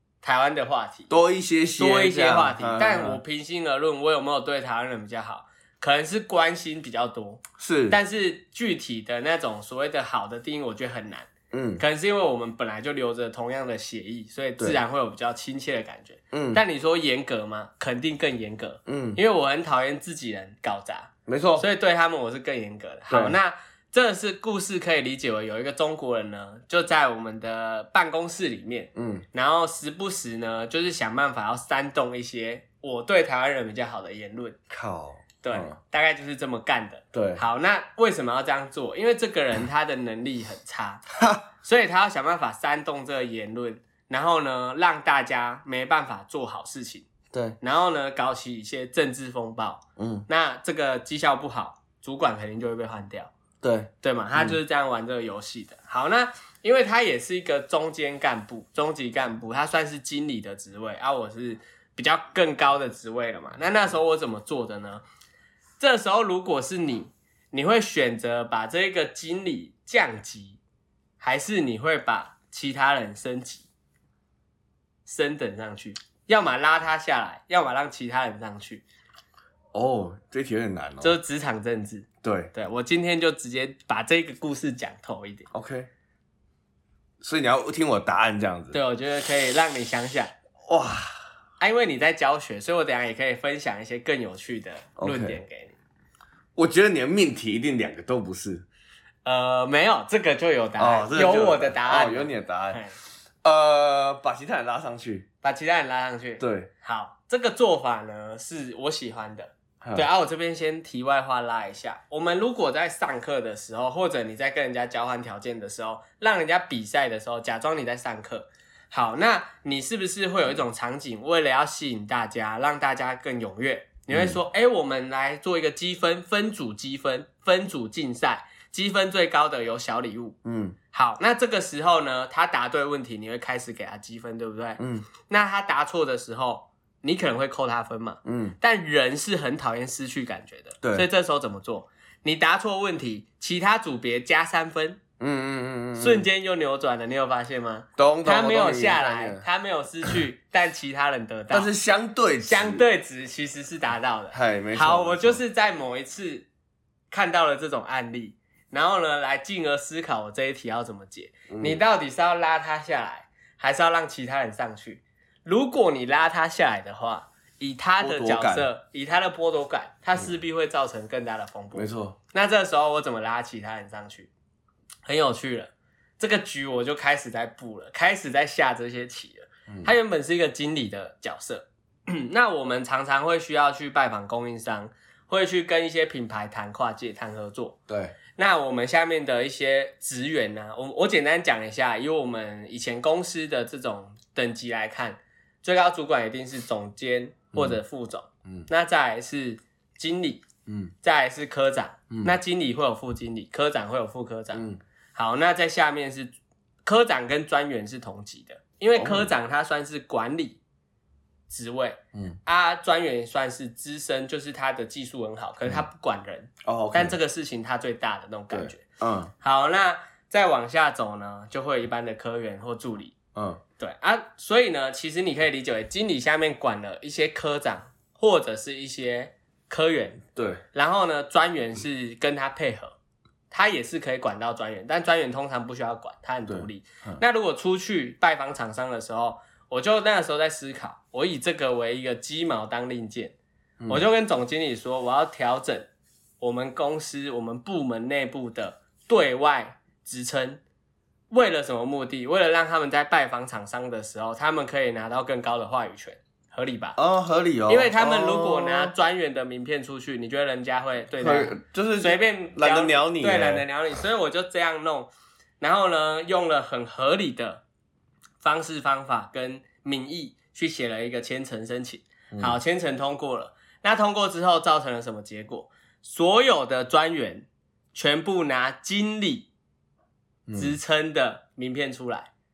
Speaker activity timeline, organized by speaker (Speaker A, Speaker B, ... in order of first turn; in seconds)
Speaker A: 0.2-1.1, 1.8-34.6, 35.4-41.0, 41.6-47.1, 47.6-53.3, 54.0-65.0, 65.8-70.6, 71.2-73.7, 75.1-78.8, 81.0-85.5, 88.7-90.3, 91.6-95.8, 99.2-103.0, 105.4-130.4, 130.9-145.0, 146.0-151.7, 152.4-156.5, 157.1-174.3, 175.1-187.8, 188.4-200.5, 201.0-204.6, 205.2-206.3, 206.8-210.6, 211.5-218.8, 219.4-223.2, 223.8-233.0, 233.5-243.3, 243.9-250.6, 251.3-257.0, 257.7-267.6, 268.4-279.5, 280.6-282.3
Speaker B: 1.1-3.2, 7.6-8.0, 11.5-11.8, 16.3-16.6, 18.9-19.2, 21.3-21.6, 23.1-23.4, 28.9-29.2, 34.7-35.8, 37.1-37.4, 41.2-41.4, 47.3-47.6, 50.0-50.3, 53.6-54.6, 79.7-81.2, 82.2-82.5, 85.5-85.9, 87.2-88.8, 90.7-91.2, 95.0-95.4, 96.6-98.7, 100.8-102.8, 103.4-105.3, 106.4-106.7, 109.8-110.1, 124.1-124.4, 130.4-130.8, 134.8-135.1, 138.2-138.6, 140.8-141.1, 145.2-146.3, 148.0-149.4, 151.5-152.8, 154.3-155.4, 161.5-161.8, 168.0-168.7, 171.8-172.2, 187.9-188.2, 200.7-200.9, 202.1-202.3, 204.5-204.8, 208.9-209.3, 216.6-217.2, 218.5-219.3, 223.3-223.6, 230.4-230.6, 236.5-237.2, 257.0-258.9, 261.2-263.6, 272.3-272.6, 280.5-280.8